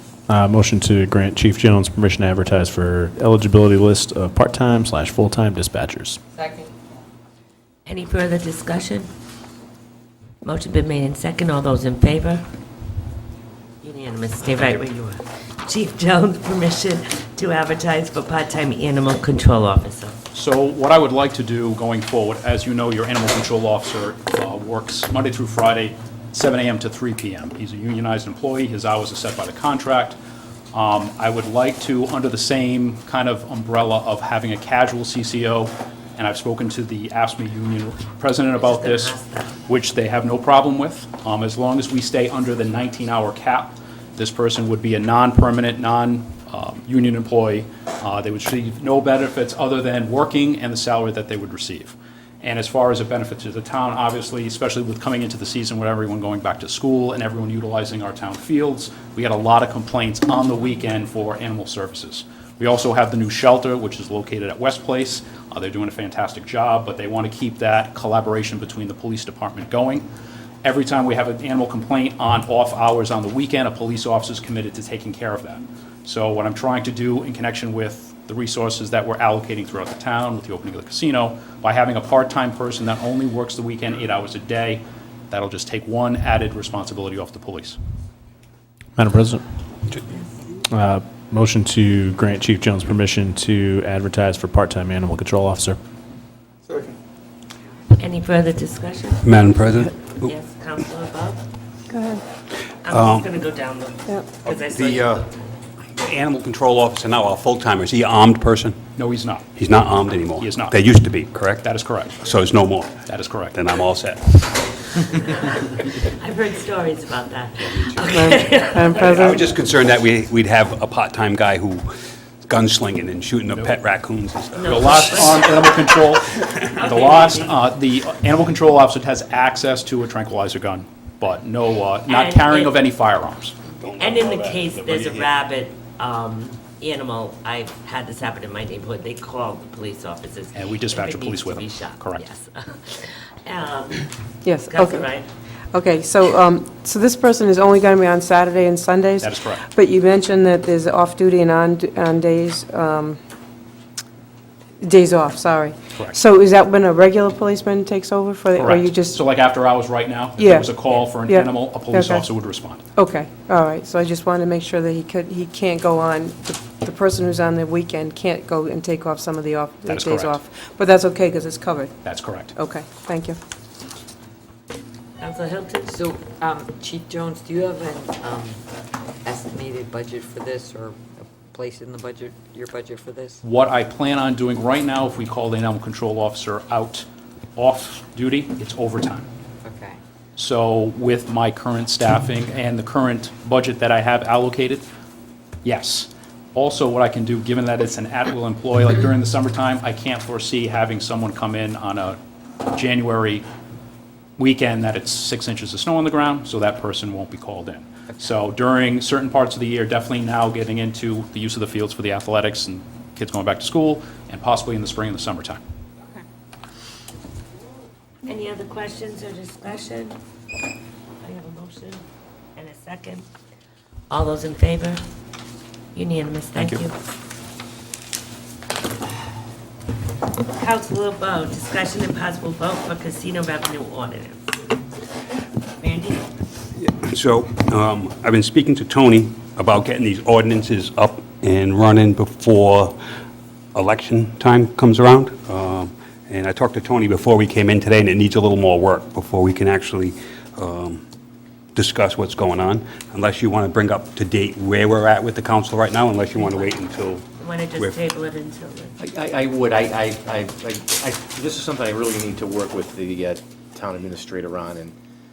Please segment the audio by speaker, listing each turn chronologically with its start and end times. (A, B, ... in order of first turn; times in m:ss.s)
0:00.3-0:06.2 A
0:06.4-0:06.7 B
0:07.8-0:09.1 C
0:10.4-0:12.4 C
0:13.8-0:20.2 C
0:20.3-0:30.2 D
0:30.7-0:39.2 D
0:38.6-0:39.6 C
0:39.7-1:10.1 D
1:10.6-1:27.8 D
1:29.0-1:29.4 A
1:30.7-1:35.8 A
1:38.0-1:39.2 C
1:39.2-1:40.3 E
1:40.2-1:41.4 C
1:41.9-1:42.2 F
1:42.8-1:45.1 C
1:42.9-1:43.3 E
1:44.5-1:45.3 E
1:45.9-1:48.8 E
1:49.0-1:49.4 D
1:49.5-1:54.8 E
1:50.4-1:50.8 D
1:51.6-1:52.2 D
1:53.0-1:53.6 D
1:56.0-1:59.2 C
1:57.6-1:58.1 E
1:58.1-1:59.5 F
1:58.9-2:01.9 E
2:02.4-2:05.7 E
2:04.6-2:05.5 C
2:04.7-2:13.6 D
2:06.7-2:07.5 C
2:12.1-2:12.7 C
2:13.8-2:15.3 E
2:14.0-2:24.1 C
2:20.5-2:22.2 D
2:24.4-2:25.1 F
2:24.6-2:25.3 C
2:25.7-2:33.2 F
2:29.2-2:29.6 D
2:34.8-2:39.2 F
2:38.5-2:42.8 D
2:40.4-2:42.3 F
2:43.0-2:52.0 F
2:49.8-2:50.4 D
2:52.0-2:52.5 D
2:52.5-2:53.4 F
2:55.2-2:56.0 C
2:55.9-2:58.6 B
2:59.2-3:03.4 B
3:03.4-3:07.0 D
3:07.6-3:09.3 D
3:09.6-3:10.0 B
3:10.4-3:14.9 D
3:15.6-3:23.4 D
3:24.4-3:35.6 D
3:38.2-3:40.2 C
3:41.2-3:42.0 C
3:42.6-3:43.2 C
3:44.1-3:45.0 C
3:45.9-3:46.9 C
3:50.6-3:54.4 C
3:55.8-3:56.3 C
3:56.8-4:03.0 E
4:03.7-4:11.0 E
4:11.7-4:18.0 E
4:17.4-4:19.0 C
4:19.0-4:24.9 G